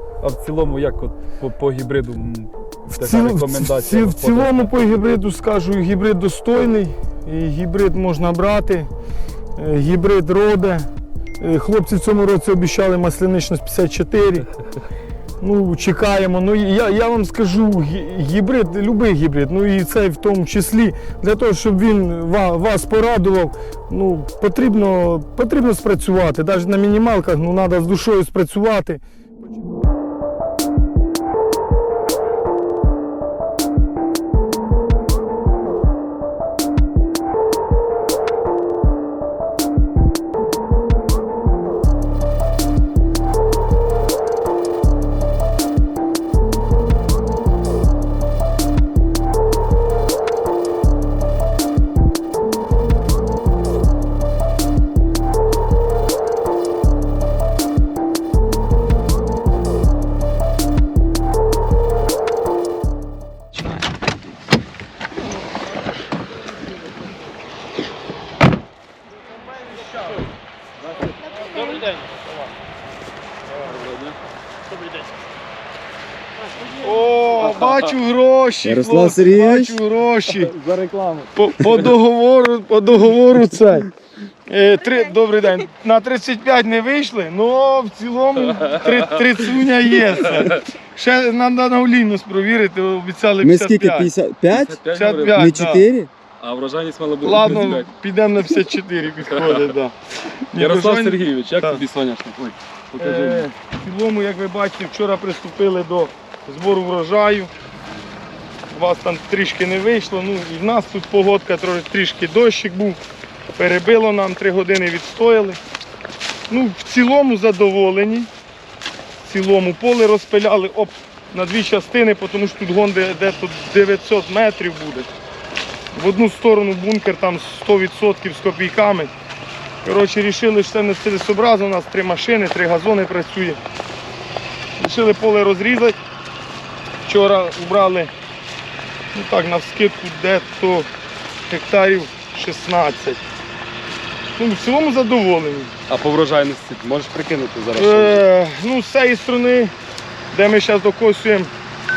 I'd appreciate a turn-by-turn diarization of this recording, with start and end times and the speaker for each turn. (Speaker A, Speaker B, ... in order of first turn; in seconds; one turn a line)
Speaker A: 0.2-4.8
Speaker B: 2.9-8.9
Speaker B: 9.6-10.9
Speaker B: 11.4-14.5
Speaker B: 15.4-29.0
Speaker A: 73.6-74.1
Speaker B: 76.8-80.5
Speaker A: 77.4-77.8
Speaker C: 78.6-79.8
Speaker A: 80.3-81.4
Speaker B: 81.3-83.9
Speaker B: 84.5-94.1
Speaker A: 88.6-89.1
Speaker C: 93.4-94.8
Speaker A: 94.5-95.5
Speaker B: 94.9-95.9
Speaker C: 95.3-96.1
Speaker A: 96.4-97.9
Speaker B: 97.2-99.9
Speaker A: 99.3-99.7
Speaker B: 100.5-101.8
Speaker A: 100.5-103.5
Speaker B: 103.0-107.5
Speaker B: 108.7-113.0
Speaker B: 113.5-115.6
Speaker B: 116.5-118.3
Speaker B: 119.2-125.1
Speaker B: 125.9-129.1
Speaker B: 129.8-133.6
Speaker B: 134.8-135.9
Speaker B: 137.0-138.1
Speaker B: 139.1-140.9
Speaker B: 141.5-143.2
Speaker B: 144.3-145.7
Speaker A: 145.9-148.2
Speaker B: 147.7-149.7
Speaker B: 150.3-151.5